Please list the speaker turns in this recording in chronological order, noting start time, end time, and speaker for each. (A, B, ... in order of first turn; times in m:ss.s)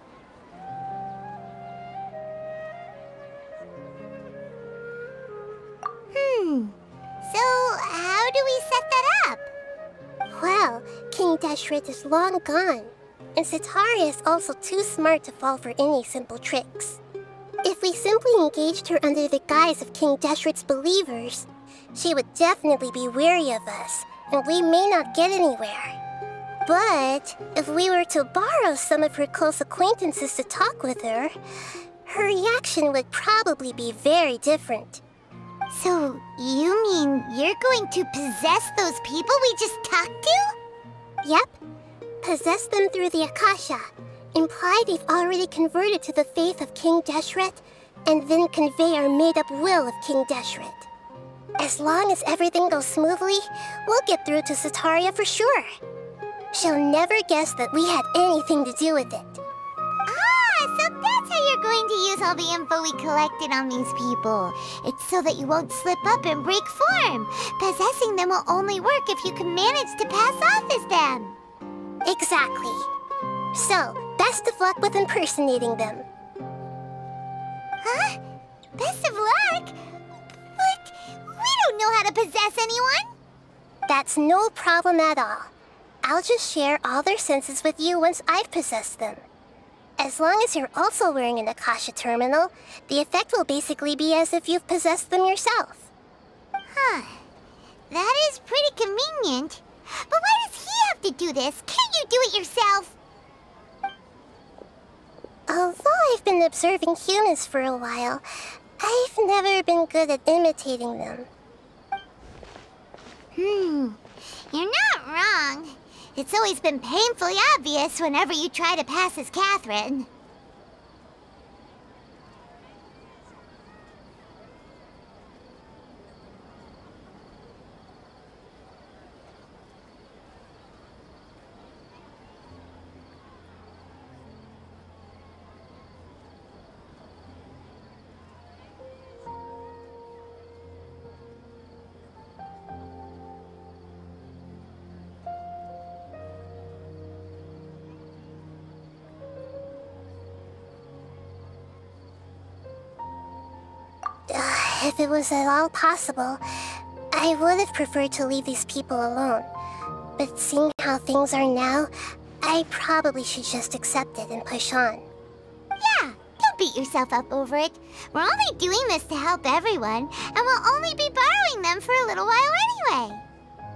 0:06.1-0:09.5 A
0:10.3-0:17.0 B
0:17.6-0:26.0 B
0:26.6-0:31.4 B
0:32.0-0:35.0 B
0:35.7-0:40.6 A
0:41.2-0:41.6 B
0:42.2-0:50.9 B
0:51.6-0:55.7 B
0:56.5-0:59.4 B
1:00.1-1:11.4 A
1:12.0-1:12.9 B
1:13.5-1:16.0 B
1:17.8-1:18.2 A
1:18.8-1:19.8 A
1:20.6-1:23.1 A
1:23.9-1:25.5 B
1:26.0-1:29.2 B
1:30.0-1:35.9 B
1:36.7-1:37.2 A
1:37.9-1:42.9 A
1:45.5-1:48.2 B
1:48.8-1:51.3 B
1:53.4-2:00.1 A
2:34.3-2:36.4 B
2:37.1-2:39.5 B
2:40.2-2:45.0 B
2:45.8-2:53.2 A